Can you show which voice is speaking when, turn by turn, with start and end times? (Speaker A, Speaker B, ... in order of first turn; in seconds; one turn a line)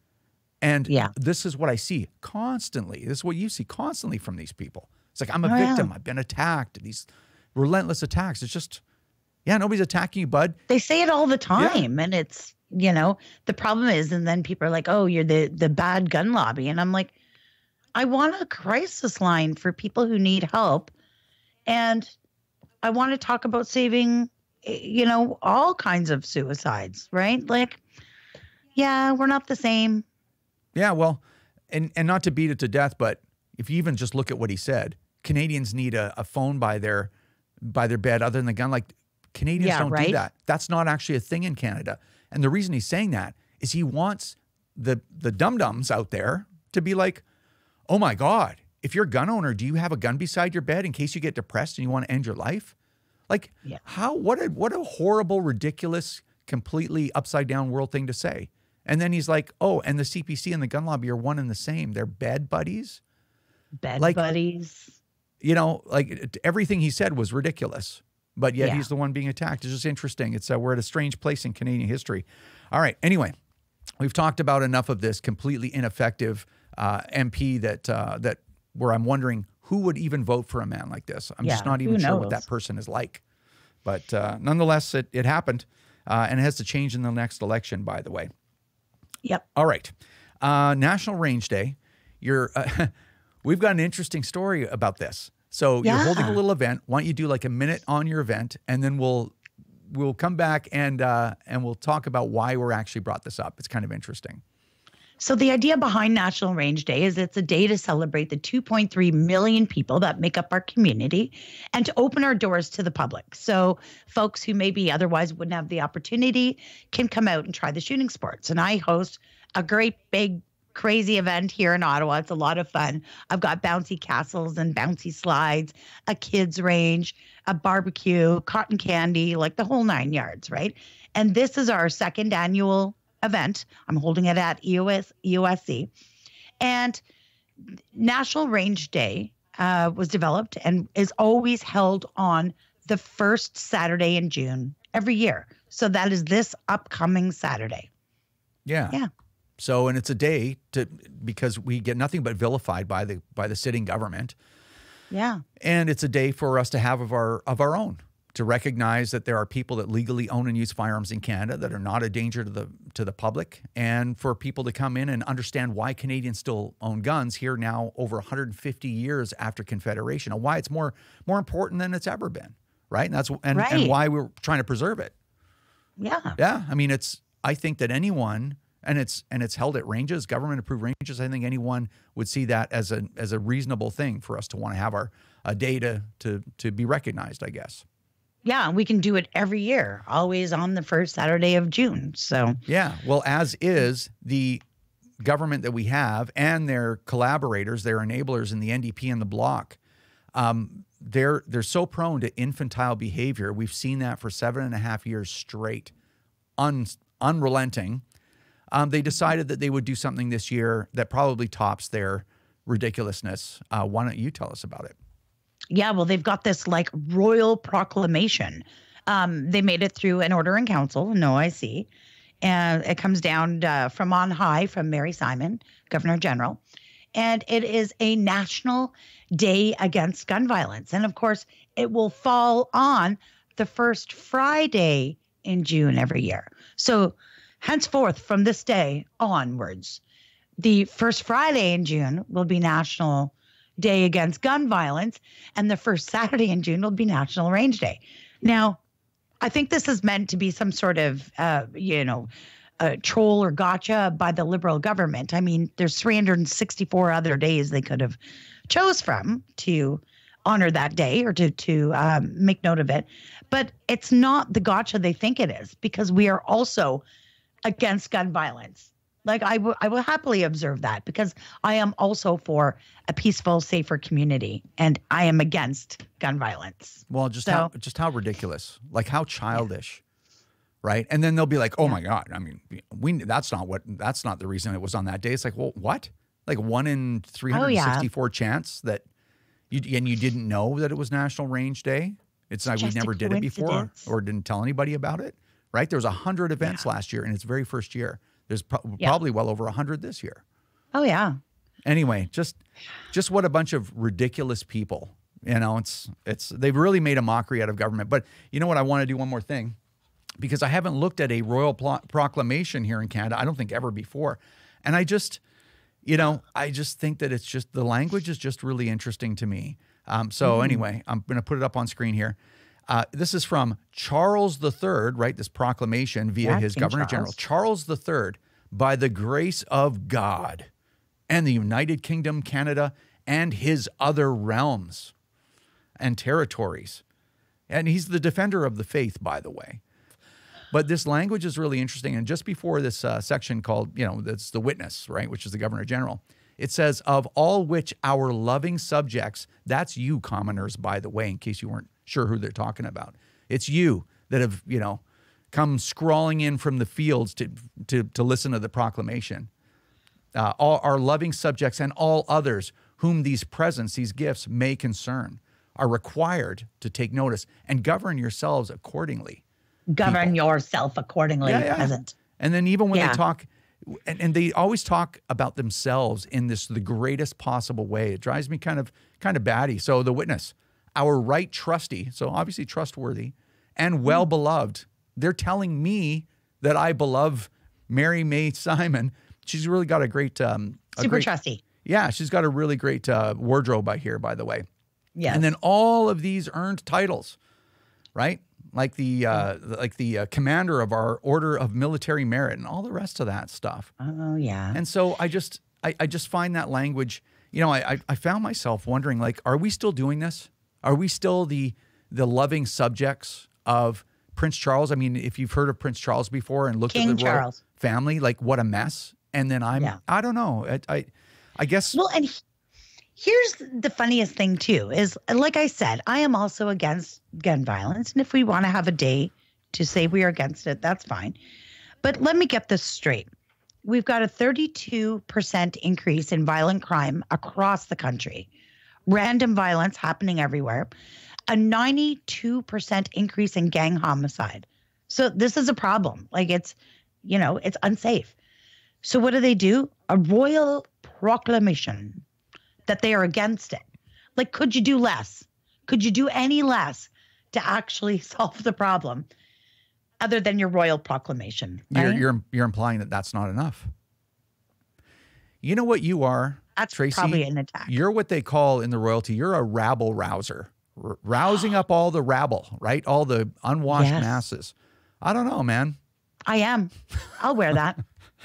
Speaker A: 0.6-8.8
Speaker B: 5.5-5.9
Speaker A: 9.4-10.6
Speaker B: 10.7-17.1
Speaker A: 11.6-11.8
Speaker B: 17.9-20.9
Speaker B: 21.7-22.1
Speaker B: 22.8-27.8
Speaker B: 28.8-30.1
Speaker A: 30.8-37.1
Speaker A: 37.6-47.2
Speaker B: 39.6-40.2
Speaker A: 47.9-52.7
Speaker A: 53.3-63.0
Speaker B: 63.8-65.0
Speaker A: 64.0-64.2
Speaker A: 65.4-73.4
Speaker B: 68.6-68.9
Speaker A: 74.0-83.2
Speaker B: 81.4-82.4
Speaker A: 83.8-88.3
Speaker A: 89.5-92.9
Speaker A: 93.4-99.3
Speaker B: 95.8-96.4
Speaker A: 99.9-104.4
Speaker B: 105.2-135.9
Speaker B: 136.6-137.0
Speaker B: 137.9-147.9
Speaker A: 148.7-149.0
Speaker A: 149.6-154.3
Speaker B: 155.1-155.4
Speaker A: 155.6-175.1
Speaker B: 173.5-174.0
Speaker B: 176.0-176.4
Speaker A: 176.4-187.8
Speaker B: 188.4-192.6
Speaker A: 192.7-194.6
Speaker A: 195.2-199.8
Speaker A: 200.3-205.9
Speaker A: 206.6-208.0
Speaker A: 208.7-215.0
Speaker B: 215.7-221.9
Speaker B: 222.4-226.6
Speaker B: 227.2-240.0
Speaker B: 240.6-248.8
Speaker B: 249.4-252.3
Speaker B: 252.8-258.2
Speaker B: 258.7-267.0
Speaker B: 267.6-277.7
Speaker A: 277.1-280.0
Speaker A: 280.8-289.1
Speaker B: 287.5-288.1
Speaker A: 289.7-300.4
Speaker B: 292.7-294.1
Speaker B: 300.9-301.4
Speaker A: 301.8-302.6
Speaker A: 303.1-309.8
Speaker A: 310.4-315.4
Speaker A: 316.0-322.4
Speaker B: 320.4-320.8
Speaker A: 322.9-330.7
Speaker B: 326.4-327.4
Speaker A: 331.3-335.1
Speaker A: 336.0-337.0
Speaker A: 337.7-339.8
Speaker A: 340.7-359.5
Speaker A: 360.3-369.4
Speaker B: 369.9-372.1
Speaker A: 370.0-370.4
Speaker A: 371.4-391.3
Speaker B: 372.9-373.2
Speaker B: 391.0-391.6
Speaker A: 391.8-394.7
Speaker B: 395.2-395.5
Speaker A: 395.3-397.4
Speaker A: 398.1-403.9
Speaker B: 404.0-404.8
Speaker A: 404.7-422.0
Speaker B: 416.9-417.6
Speaker B: 421.9-422.4
Speaker B: 423.2-431.4
Speaker B: 432.0-433.3
Speaker B: 433.9-438.5
Speaker B: 439.1-440.9
Speaker B: 441.5-448.4
Speaker B: 449.0-452.2
Speaker B: 452.9-453.9
Speaker B: 454.4-459.3
Speaker B: 460.2-462.3
Speaker A: 461.9-463.9
Speaker A: 465.6-476.0
Speaker B: 466.8-467.9
Speaker B: 473.9-474.4
Speaker B: 476.5-478.0